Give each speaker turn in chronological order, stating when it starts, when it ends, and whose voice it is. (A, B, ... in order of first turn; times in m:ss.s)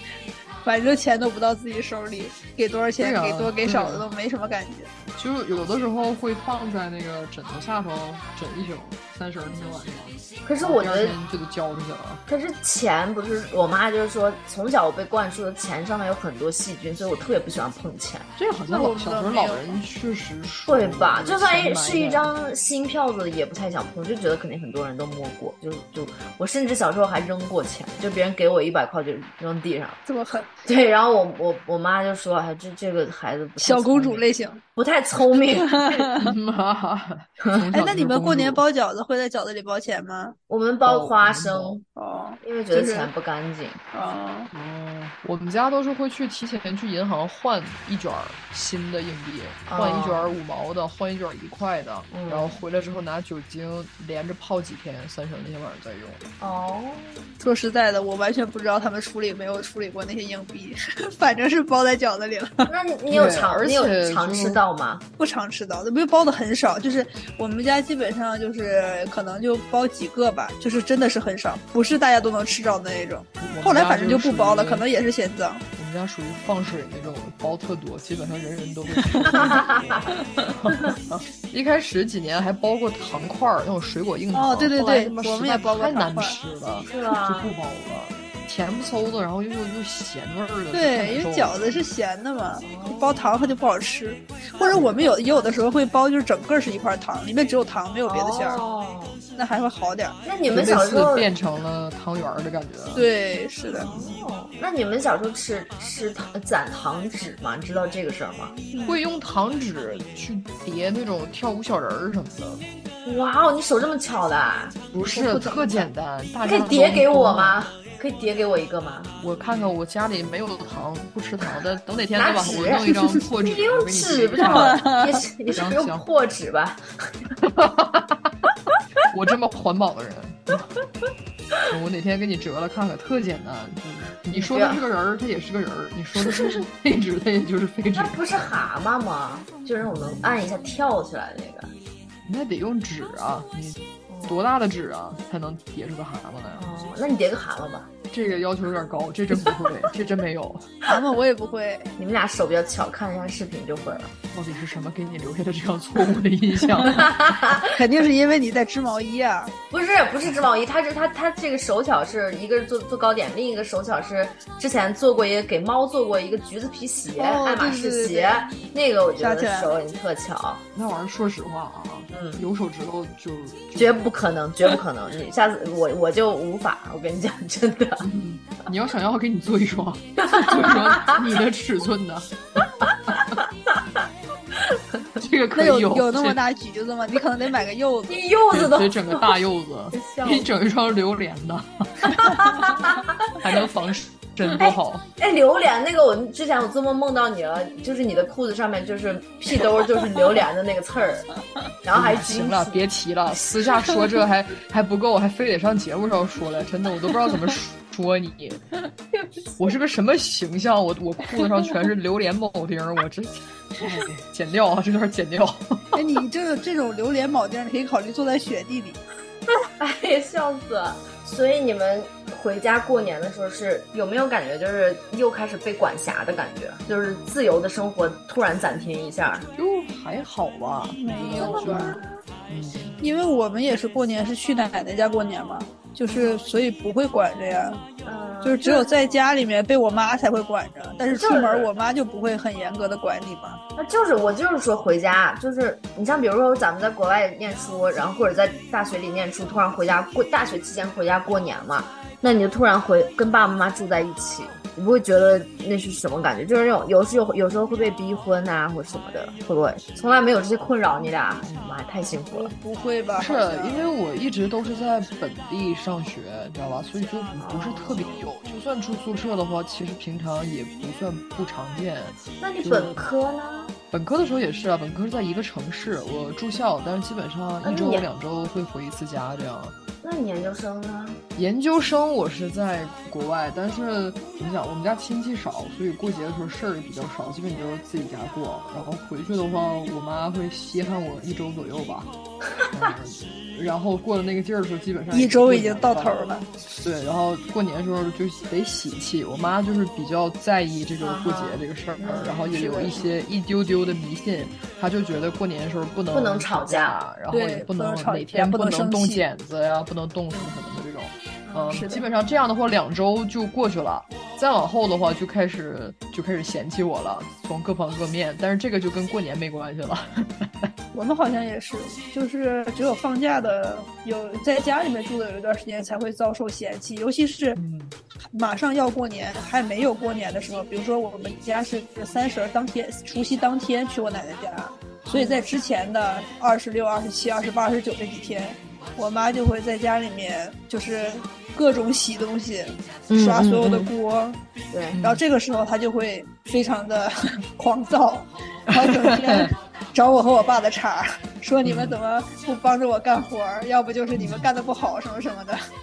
0:00.6-0:04.9 A
0:03.0-0:04.1 B
0:05.2-0:12.2 B
0:10.4-0:11.2 C
0:12.3-0:18.3 C
0:18.4-0:22.3 B
0:18.7-0:19.8 A
0:20.7-0:30.0 C
0:30.1-0:30.6 A
0:30.6-0:36.1 C
0:33.6-0:34.6 A
0:35.6-0:36.4 A
0:36.2-0:38.6 B
0:37.7-0:40.4 A
0:40.5-0:41.8 C
0:40.8-0:41.8 B
0:42.0-0:43.1 A
0:42.4-0:43.8 C
0:43.9-0:44.5 A
0:44.5-0:56.2 B
0:49.7-0:50.3 C
0:52.1-0:52.6 C
0:56.4-0:57.2 C
0:57.4-1:02.7 A
1:02.7-1:05.0 C
1:03.1-1:04.6 B
1:05.2-1:15.6 A
1:13.4-1:14.9 B
1:15.8-1:31.8 B
1:19.1-1:19.5 A
1:19.2-1:21.0 C
1:24.3-1:26.4 A
1:26.8-1:27.5 C
1:30.7-1:38.6 A
1:32.6-1:33.3 C
1:34.6-1:35.2 C
1:38.1-1:39.2 C
1:39.4-1:40.2 A
1:40.2-1:41.3 C
1:40.5-1:43.1 B
1:43.0-1:44.0 A
1:43.7-1:48.6 C
1:48.7-1:49.0 A
1:48.9-1:52.7 B
1:53.0-1:54.8 C
1:54.9-1:57.7 B
1:55.1-1:55.9 A
1:56.4-1:59.1 C
1:59.2-2:05.0 B
2:02.2-2:07.3 C
2:04.4-2:05.2 A
2:05.5-2:06.0 B
2:07.4-2:08.3 B
2:09.1-2:10.6 B
2:11.7-2:18.7 B
2:14.3-2:14.8 C
2:16.2-2:16.6 C
2:17.9-2:21.7 C
2:19.9-2:20.3 B
2:22.3-2:26.7 B
2:24.1-2:24.4 C
2:26.6-2:27.9 C
2:28.1-2:30.7 B
2:30.8-2:32.0 A
2:32.0-2:34.1 C
2:34.3-2:37.1 B
2:36.9-2:37.8 C
2:37.6-2:39.5 A
2:39.7-2:50.6 C
2:47.2-2:48.5 A
2:49.2-2:49.7 A
2:50.8-2:54.0 B
2:52.1-2:52.4 C
2:53.8-2:58.1 C
2:58.0-3:03.3 B
3:00.2-3:01.2 C
3:05.2-3:06.4 B
3:05.6-3:08.2 A
3:08.1-3:09.4 C
3:08.5-3:12.8 B
3:09.9-3:10.5 C
3:12.2-3:13.4 C
3:13.4-3:15.0 B
3:14.5-3:21.3 C
3:21.8-3:22.8 C
3:21.9-3:28.6 B
3:29.6-3:36.0 B
3:35.9-3:39.0 A
3:39.8-3:49.5 C
3:49.6-3:53.0 B
3:51.0-3:52.0 A
3:51.4-3:52.2 C
3:53.0-3:57.8 A
3:56.1-3:56.4 C
3:58.0-3:58.9 C
3:58.4-4:03.6 A
4:01.1-4:01.7 C
4:03.8-4:22.5 C
4:22.3-4:23.9 A
4:23.2-4:33.1 B
4:27.4-4:28.2 C
4:32.4-4:33.8 C
4:33.9-4:39.8 B
4:37.6-4:38.1 C
4:40.0-4:41.2 C
4:41.4-4:52.1 B
4:52.7-4:56.2 B
4:55.1-4:56.5 A
4:56.8-5:20.7 B
5:01.0-5:02.9 C
5:02.5-5:03.1 A
5:06.1-5:07.0 C
5:07.3-5:09.2 A
5:11.5-5:11.8 C
5:11.7-5:12.0 A
5:20.9-5:27.6 A
5:27.6-5:28.0 B
5:28.3-5:44.4 A
5:35.1-5:35.4 C
5:43.1-5:43.9 C
5:44.7-5:45.0 C
5:44.9-5:45.2 B
5:45.0-5:55.6 A
5:48.7-5:49.5 B
5:51.6-5:52.0 B
5:54.1-5:54.5 B